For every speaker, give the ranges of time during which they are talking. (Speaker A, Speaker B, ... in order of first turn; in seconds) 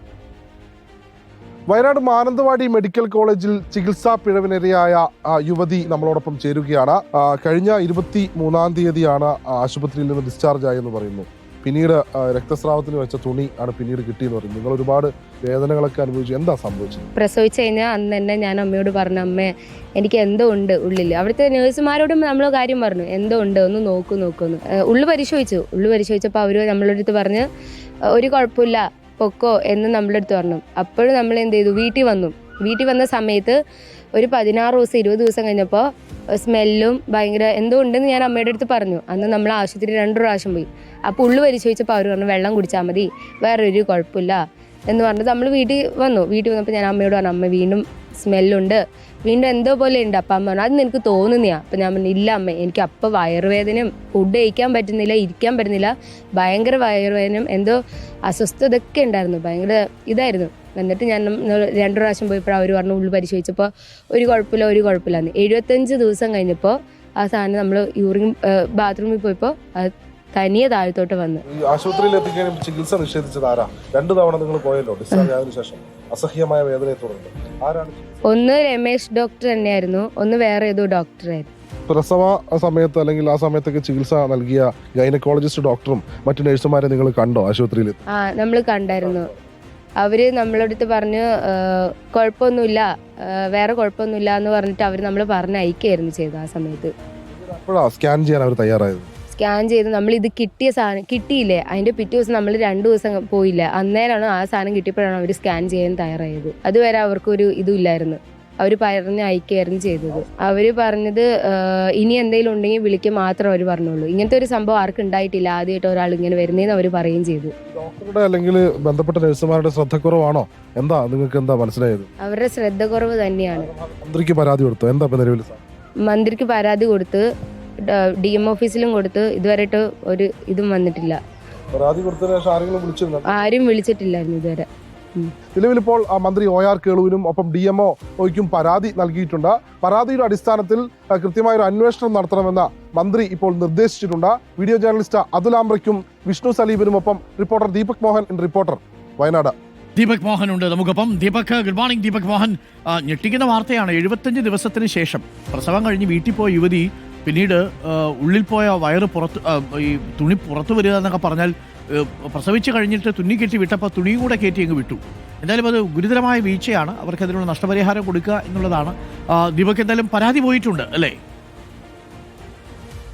Speaker A: 1.7-17.1, 71.5-78.2, 81.9-88.0, 89.0-89.4, 97.4-99.1, 117.7-122.1, 123.5-125.6, 131.7-133.3, 135.5-149.5
Speaker B: 17.1-27.5, 28.1-33.6, 34.2-71.4, 78.2-81.5, 88.1-89.3, 90.0-96.9, 99.3-117.5, 122.2-123.7, 126.1-127.2, 127.8-131.2, 133.3-135.3
Speaker C: 149.9-171.2